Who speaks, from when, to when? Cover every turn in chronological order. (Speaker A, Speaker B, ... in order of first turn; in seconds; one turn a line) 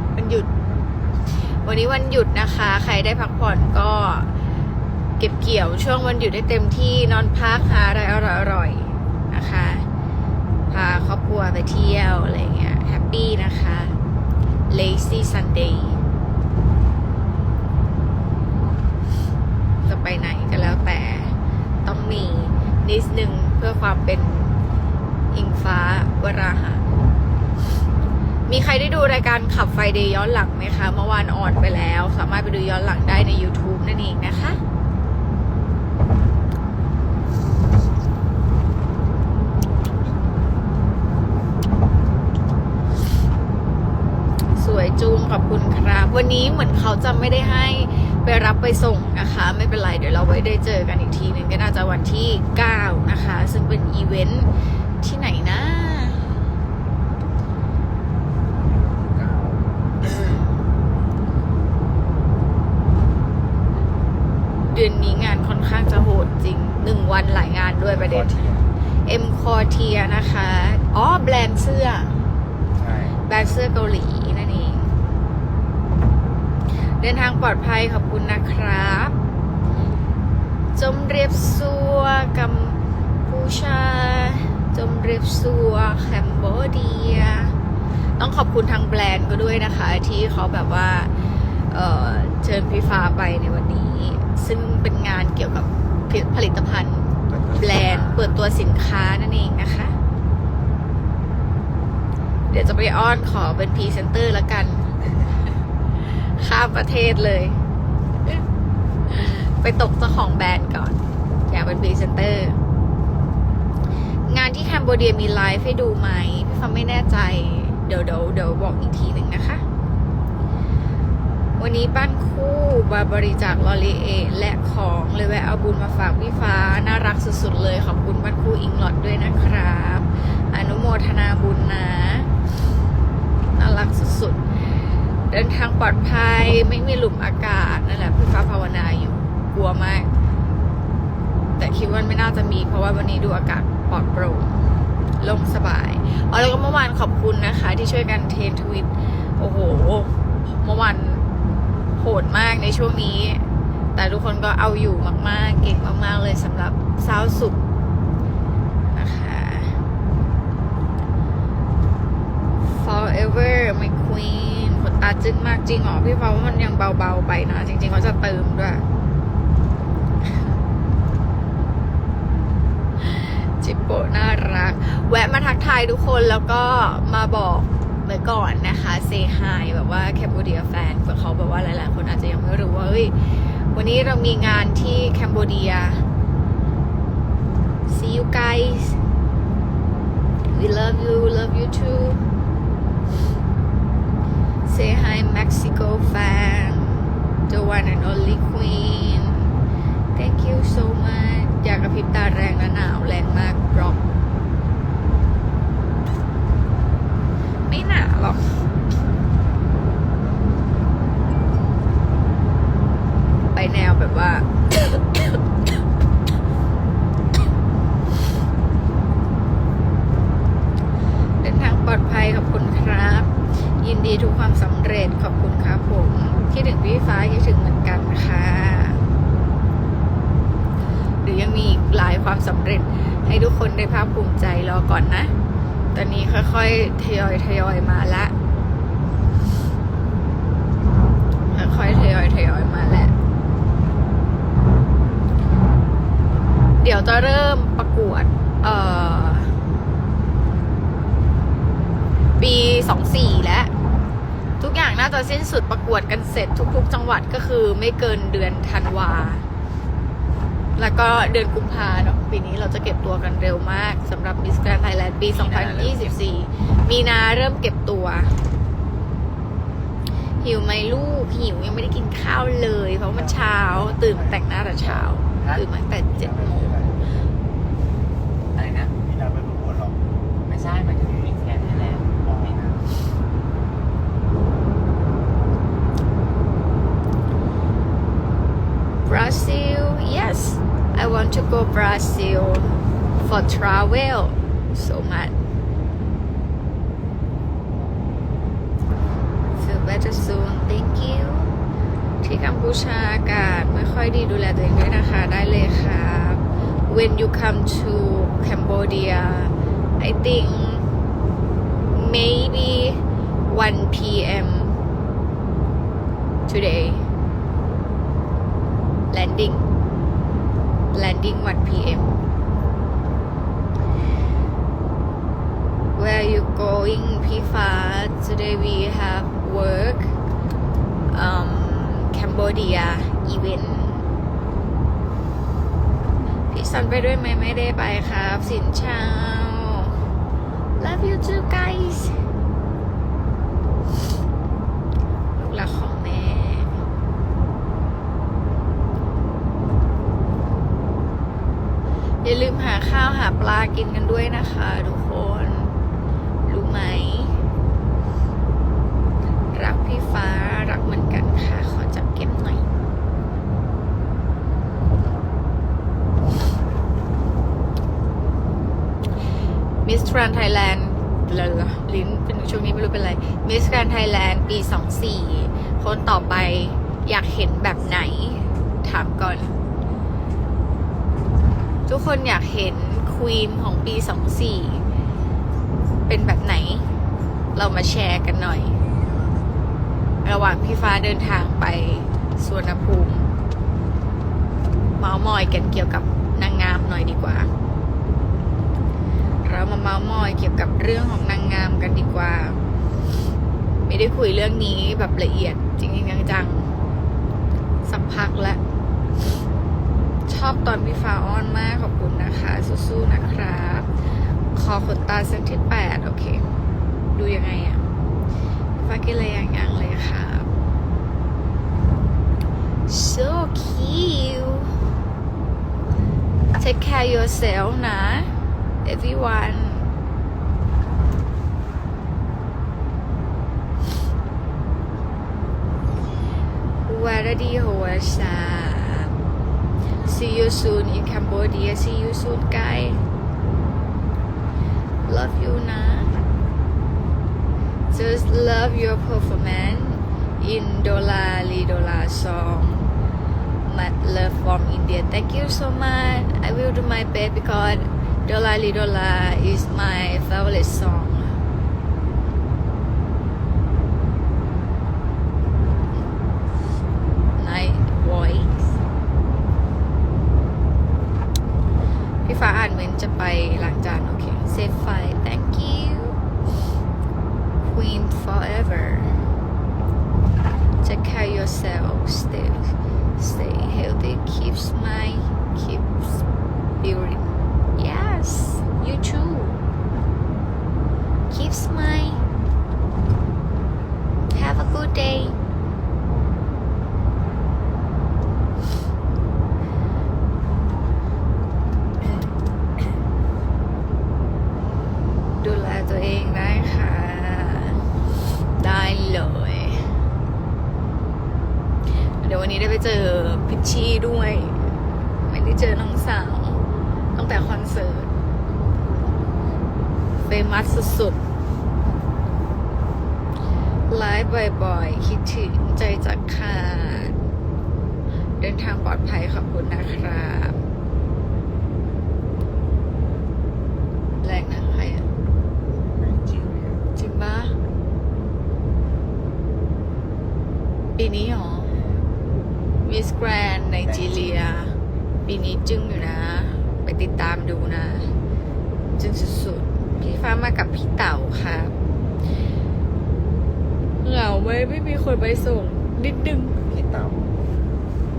Speaker A: 0.2-0.5
Speaker A: 1.6-4.3
Speaker A: 5.2-9.9
Speaker A: 10.7-14.0
Speaker A: 14.7-16.0
Speaker A: 19.8-24.6
Speaker A: 25.3-26.9
Speaker A: 28.5-34.6
Speaker A: 44.5-56.4
Speaker B: 58.7-60.1
Speaker A: 64.7-68.4
Speaker C: 68.0-68.5
Speaker A: 69.1-72.2
Speaker C: 72.8-73.2
Speaker A: 73.3-75.0
Speaker A: 77.0-79.2
Speaker A: 80.8-87.6
Speaker A: 88.2-91.1
Speaker A: 91.7-100.0
Speaker B: 97.3-98.3
Speaker A: 102.5-104.9
Speaker A: 106.2-107.6
Speaker A: 109.1-112.6
Speaker A: 114.3-119.6
Speaker A: 121.6-132.3
Speaker A: 133.6-134.5
Speaker A: 135.3-140.1
Speaker A: 141.6-144.6
Speaker A: 145.2-151.2
Speaker A: 152.0-157.6
Speaker A: 158.9-159.8
Speaker A: 162.6-168.8
Speaker A: 173.0-186.1
Speaker A: 187.9-189.0
Speaker A: 190.5-192.2
Speaker A: 194.7-199.6
Speaker A: 200.2-204.0
Speaker A: 207.7-208.6
Speaker A: 213.5-215.4
Speaker A: 221.4-229.1
Speaker A: 231.2-235.3
Speaker A: 235.9-238.3
Speaker A: 241.5-243.2
Speaker A: 246.8-249.6
Speaker A: 252.4-253.7
Speaker A: 254.6-259.4
Speaker A: 260.8-268.4
Speaker C: 265.3-266.2
Speaker A: 270.4-276.9
Speaker B: 273.1-275.2
Speaker C: 275.4-275.7
Speaker B: 276.2-277.0
Speaker C: 278.5-278.9
Speaker B: 279.0-280.0
Speaker C: 280.4-282.7
Speaker B: 282.2-282.8
Speaker A: 289.1-295.4
Speaker A: 299.6-301.5
Speaker A: 302.2-310.9
Speaker A: 311.9-314.8
Speaker A: 316.5-317.1
Speaker A: 319.1-319.7
Speaker A: 320.9-322.2
Speaker A: 325.9-330.1
Speaker A: 331.1-334.1
Speaker A: 336.5-340.0
Speaker A: 340.8-342.2
Speaker A: 345.4-346.8
Speaker A: 352.2-355.8
Speaker A: 356.5-357.4
Speaker A: 359.5-362.7
Speaker A: 369.8-379.6
Speaker A: 381.9-384.8
Speaker A: 386.1-386.9
Speaker A: 387.6-388.8
Speaker A: 390.2-393.3
Speaker A: 395.0-397.5
Speaker A: 399.4-402.6
Speaker A: 403.9-406.7
Speaker A: 407.9-408.6
Speaker A: 410.3-413.9
Speaker A: 414.5-416.5
Speaker A: 417.1-417.9
Speaker A: 418.8-420.5
Speaker A: 422.9-424.9
Speaker A: 426.6-428.3
Speaker A: 428.8-429.9
Speaker A: 436.9-439.2
Speaker A: 440.1-443.0
Speaker A: 445.1-446.2
Speaker A: 447.9-452.9
Speaker A: 453.7-461.4
Speaker A: 467.4-468.8
Speaker A: 472.2-476.2
Speaker A: 477.7-479.2
Speaker A: 480.8-486.2
Speaker A: 486.8-489.6
Speaker A: 491.3-492.2
Speaker A: 494.3-495.4
Speaker A: 505.4-507.8
Speaker A: 508.6-509.9
Speaker A: 512.2-514.8
Speaker A: 515.3-516.6
Speaker A: 517.1-518.1
Speaker A: 520.3-521.2
Speaker A: 523.9-527.2
Speaker A: 528.4-530.6
Speaker A: 534.2-535.1
Speaker C: 536.0-536.8
Speaker A: 537.0-537.6
Speaker A: 541.0-541.8
Speaker A: 542.9-548.1
Speaker A: 549.0-551.8
Speaker A: 554.0-556.6
Speaker C: 556.6-557.2